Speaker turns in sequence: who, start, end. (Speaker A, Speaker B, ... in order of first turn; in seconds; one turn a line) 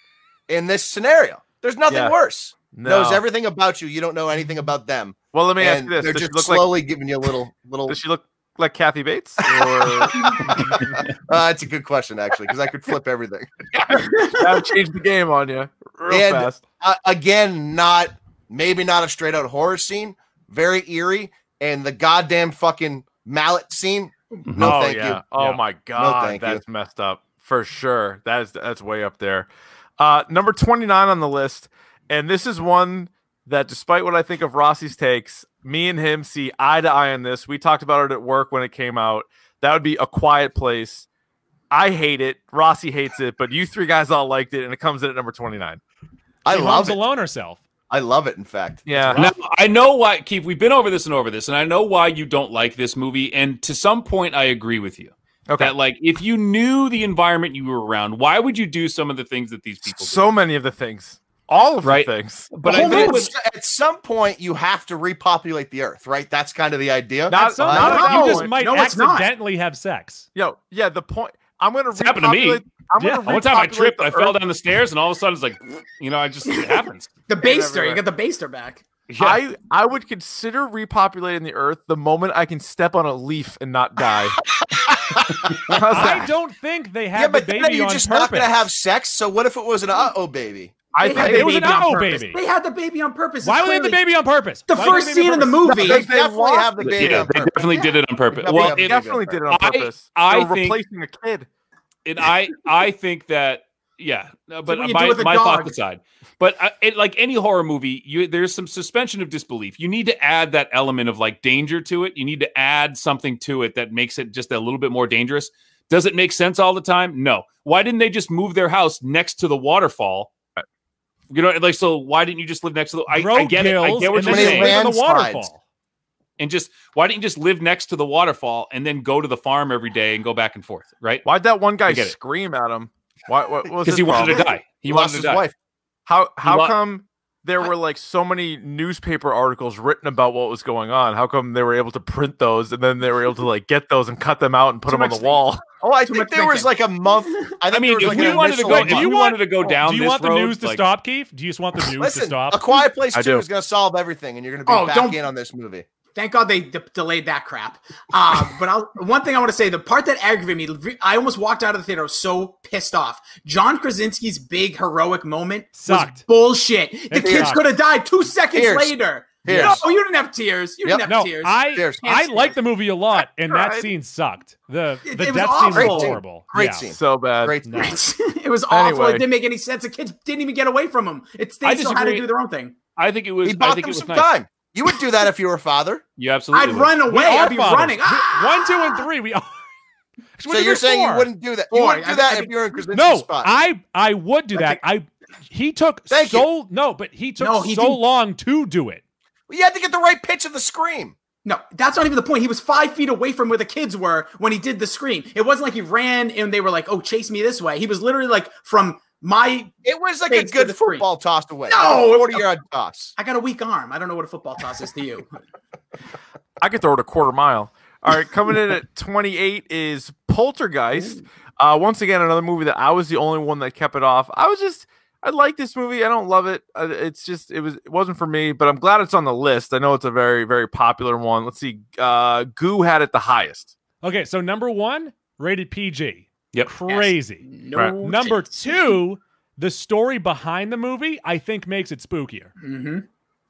Speaker A: 0.5-8.0
Speaker B: 1.9-2.1
Speaker B: 2.7-3.2
Speaker B: 5.3-6.8
Speaker B: 7.9-10.9
Speaker A: 9.4-13.5
Speaker B: 13.7-16.6
Speaker C: 14.1-14.4
Speaker A: 16.1-25.3
Speaker B: 24.6-29.5
Speaker D: 25.3-25.6
Speaker A: 25.9-26.6
Speaker B: 30.0-41.1
Speaker B: 41.7-45.8
Speaker A: 46.4-47.0
Speaker D: 46.5-47.6
Speaker A: 47.9-48.9
Speaker B: 48.9-49.2
Speaker D: 48.9-49.4
Speaker E: 49.1-60.2
Speaker B: 55.5-55.7
Speaker B: 59.9-63.1
Speaker E: 61.8-63.3
Speaker A: 62.6-68.5
Speaker C: 62.7-63.2
Speaker B: 67.3-68.5
Speaker D: 67.3-70.3
Speaker C: 68.0-69.3
Speaker B: 70.3-74.4
Speaker E: 72.0-72.6
Speaker D: 73.0-73.4
Speaker E: 73.2-77.1
Speaker C: 77.3-78.8
Speaker B: 77.4-78.0
Speaker E: 79.1-79.4
Speaker B: 79.2-84.4
Speaker A: 84.8-86.1
Speaker B: 85.7-86.3
Speaker D: 85.9-88.6
Speaker A: 87.1-90.9
Speaker B: 90.9-91.7
Speaker C: 91.0-94.0
Speaker D: 91.1-92.4
Speaker D: 93.4-95.9
Speaker C: 94.7-96.0
Speaker B: 95.7-97.4
Speaker A: 95.7-97.8
Speaker E: 97.0-100.8
Speaker A: 98.3-99.4
Speaker B: 98.5-101.5
Speaker E: 102.0-120.3
Speaker C: 104.7-105.7
Speaker E: 121.3-124.8
Speaker D: 123.1-125.6
Speaker A: 124.2-125.5
Speaker E: 126.4-131.2
Speaker B: 131.2-134.5
Speaker E: 131.9-132.1
Speaker A: 133.7-135.5
Speaker E: 133.8-135.4
Speaker B: 136.1-145.6
Speaker E: 136.4-136.7
Speaker C: 144.9-145.4
Speaker A: 145.8-149.1
Speaker C: 146.1-146.7
Speaker C: 147.3-147.6
Speaker E: 147.7-150.8
Speaker D: 148.0-152.8
Speaker A: 152.0-155.8
Speaker B: 153.1-153.4
Speaker C: 154.7-155.2
Speaker C: 156.1-171.7
Speaker D: 165.7-166.2
Speaker D: 167.1-167.6
Speaker A: 167.2-167.6
Speaker A: 168.5-169.8
Speaker D: 169.5-169.8
Speaker D: 171.0-176.9
Speaker A: 171.7-172.5
Speaker B: 173.5-173.9
Speaker C: 175.0-176.2
Speaker A: 175.7-178.0
Speaker B: 176.9-177.6
Speaker D: 177.6-178.0
Speaker C: 177.8-182.8
Speaker B: 178.7-179.2
Speaker E: 181.6-182.3
Speaker E: 182.9-184.3
Speaker A: 183.4-186.0
Speaker E: 186.2-186.9
Speaker C: 186.5-189.0
Speaker D: 187.0-189.6
Speaker D: 190.4-191.3
Speaker A: 190.5-193.5
Speaker C: 191.7-192.5
Speaker D: 192.9-199.0
Speaker C: 194.5-194.8
Speaker A: 196.1-196.5
Speaker C: 197.4-198.0
Speaker A: 199.5-201.1
Speaker C: 201.4-209.7
Speaker A: 209.8-213.1
Speaker C: 210.3-211.1
Speaker C: 211.7-212.4
Speaker C: 213.2-215.3
Speaker B: 216.6-233.7
Speaker D: 234.0-242.5
Speaker C: 236.9-238.9
Speaker C: 242.6-243.0